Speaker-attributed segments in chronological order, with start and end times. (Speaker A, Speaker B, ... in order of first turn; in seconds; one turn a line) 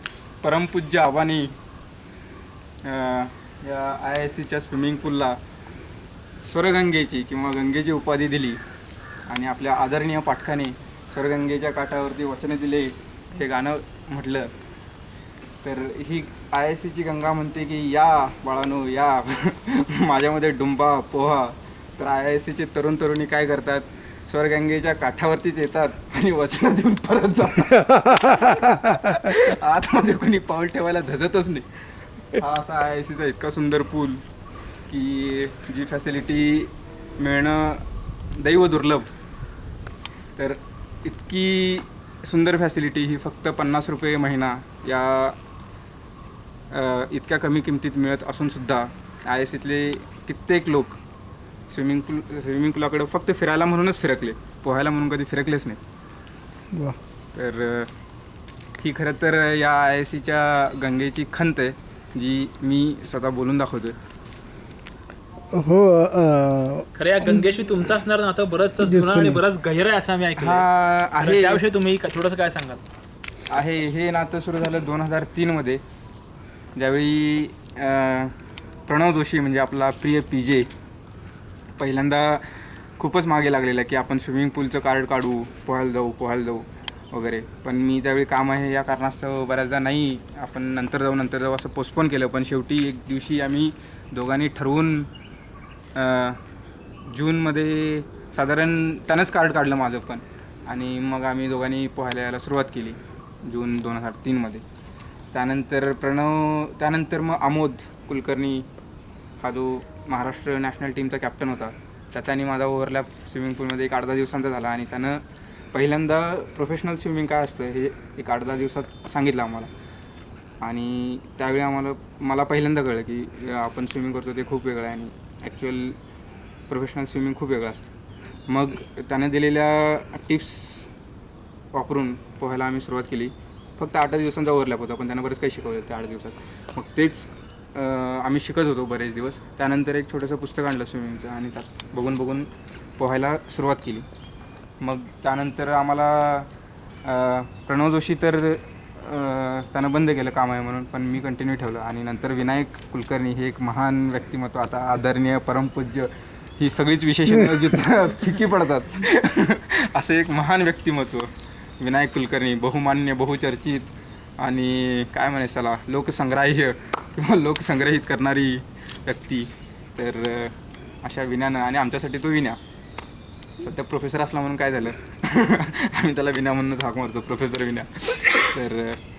Speaker A: 0.4-1.5
Speaker A: 2.9-5.3
Speaker A: 6.4-8.6
Speaker A: 9.3-14.5
Speaker A: 15.6-31.6
Speaker B: 27.7-29.1
Speaker A: 32.3-34.2
Speaker A: 34.9-39.1
Speaker A: 40.4-45.4
Speaker A: 46.7-51.0
Speaker A: 51.7-55.8
Speaker A: 57.3-57.9
Speaker A: 58.8-64.0
Speaker B: 65.5-67.6
Speaker C: 66.9-72.8
Speaker B: 68.8-69.4
Speaker A: 70.4-71.6
Speaker A: 73.5-75.8
Speaker A: 76.8-78.3
Speaker A: 78.9-80.7
Speaker A: 81.8-95.1
Speaker A: 95.9-96.4
Speaker A: 97.1-104.6
Speaker A: 105.3-108.7
Speaker A: 109.4-115.2
Speaker A: 115.7-119.7
Speaker A: 120.6-126.0
Speaker A: 126.7-127.9
Speaker A: 128.5-130.9
Speaker A: 131.7-144.1
Speaker A: 144.8-146.5
Speaker A: 147.0-172.6
Speaker B: 157.3-157.7
Speaker A: 173.6-179.0